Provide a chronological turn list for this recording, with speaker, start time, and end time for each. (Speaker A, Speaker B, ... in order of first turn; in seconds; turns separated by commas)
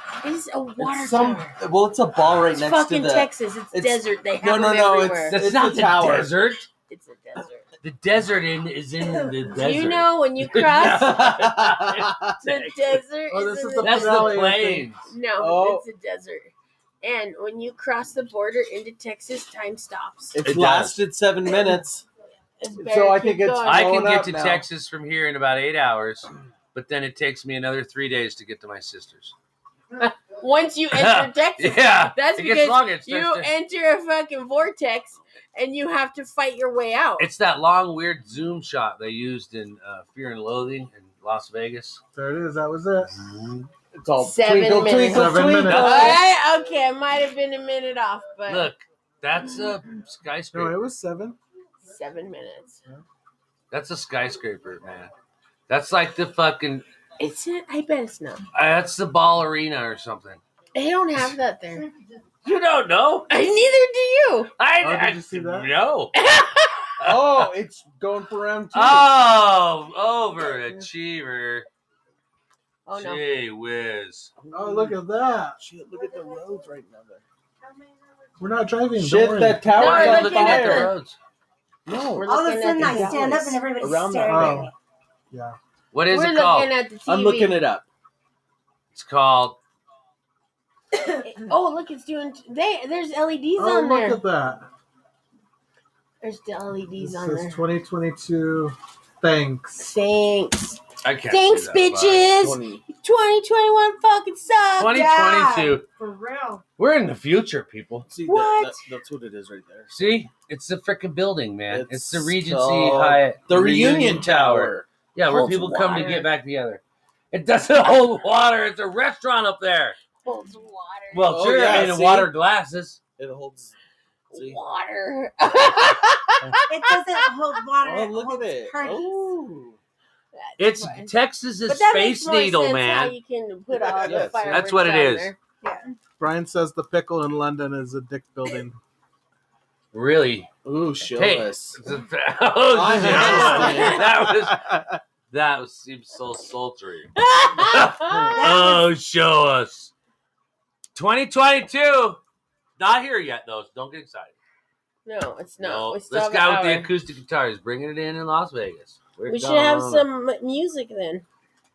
Speaker A: 0.2-1.6, Speaker B: 0.8-6.4, Speaker A: 2.5-5.4, Speaker C: 5.3-6.7, Speaker A: 6.9-7.6, Speaker C: 7.8-13.0, Speaker A: 9.6-11.3, Speaker B: 10.8-12.3, Speaker A: 12.4-14.5, Speaker D: 13.3-14.9, Speaker C: 13.8-15.1, Speaker A: 15.1-20.4, Speaker B: 15.3-15.8, Speaker B: 20.3-22.0, Speaker C: 20.4-21.0, Speaker A: 22.6-23.9, Speaker B: 22.8-24.6, Speaker C: 23.6-29.3, Speaker A: 30.0-37.3, Speaker C: 30.9-33.5, Speaker C: 37.2-42.0, Speaker D: 42.1-43.2, Speaker C: 43.2-43.7, Speaker B: 43.9-46.2, Speaker A: 44.2-48.7, Speaker D: 45.0-46.0, Speaker C: 45.6-46.2, Speaker C: 48.5-50.8, Speaker D: 50.5-51.4, Speaker A: 51.9-52.8, Speaker C: 53.7-55.1, Speaker C: 55.7-56.9, Speaker A: 57.2-58.4, Speaker C: 58.5-60.4, Speaker A: 60.7-61.9, Speaker E: 61.7-62.2, Speaker C: 62.4-63.3, Speaker A: 63.3-64.5, Speaker C: 64.6-66.1, Speaker D: 64.8-65.7, Speaker A: 66.1-66.9, Speaker C: 67.0-67.5, Speaker B: 67.0-69.1, Speaker C: 68.7-71.7, Speaker D: 70.6-70.9, Speaker A: 72.9-73.2, Speaker C: 72.9-74.5, Speaker D: 74.5-75.6, Speaker B: 75.6-77.2, Speaker E: 75.9-76.7, Speaker E: 77.6-78.7, Speaker D: 78.4-79.8, Speaker B: 78.9-80.9, Speaker C: 79.7-81.2, Speaker A: 79.7-80.9, Speaker B: 81.9-84.7, Speaker A: 82.2-83.6, Speaker E: 82.2-84.7, Speaker D: 84.3-84.7, Speaker D: 85.3-85.6, Speaker C: 85.9-86.7, Speaker A: 86.1-87.6, Speaker B: 87.0-87.9, Speaker C: 88.9-89.6, Speaker A: 91.2-94.2, Speaker D: 93.6-94.7, Speaker A: 96.2-97.6, Speaker D: 97.0-99.8, Speaker A: 99.8-105.1, Speaker C: 101.0-102.3, Speaker B: 102.3-102.8, Speaker C: 104.8-105.9, Speaker E: 104.9-106.6, Speaker C: 106.8-108.1, Speaker B: 108.0-109.9, Speaker A: 108.2-108.9, Speaker C: 109.9-120.0, Speaker B: 111.7-114.9, Speaker A: 115.4-116.3, Speaker A: 120.2-121.4, Speaker C: 121.1-123.0, Speaker B: 121.2-122.3, Speaker B: 123.2-123.7, Speaker B: 124.3-124.6, Speaker A: 124.3-126.7, Speaker E: 126.7-129.4, Speaker B: 127.8-129.8, Speaker A: 130.3-131.1, Speaker C: 130.6-133.1, Speaker A: 131.7-135.4, Speaker B: 133.9-134.7, Speaker C: 134.1-135.3, Speaker E: 135.6-135.9, Speaker D: 136.2-138.8, Speaker C: 139.9-140.5, Speaker B: 140.6-141.8, Speaker C: 141.0-149.9, Speaker B: 142.7-144.1, Speaker D: 143.0-144.9, Speaker A: 143.4-143.9, Speaker A: 147.2-148.5, Speaker E: 148.3-148.9, Speaker C: 150.9-152.2, Speaker C: 152.8-154.4, Speaker A: 155.0-156.9, Speaker C: 155.6-160.1, Speaker A: 159.3-161.2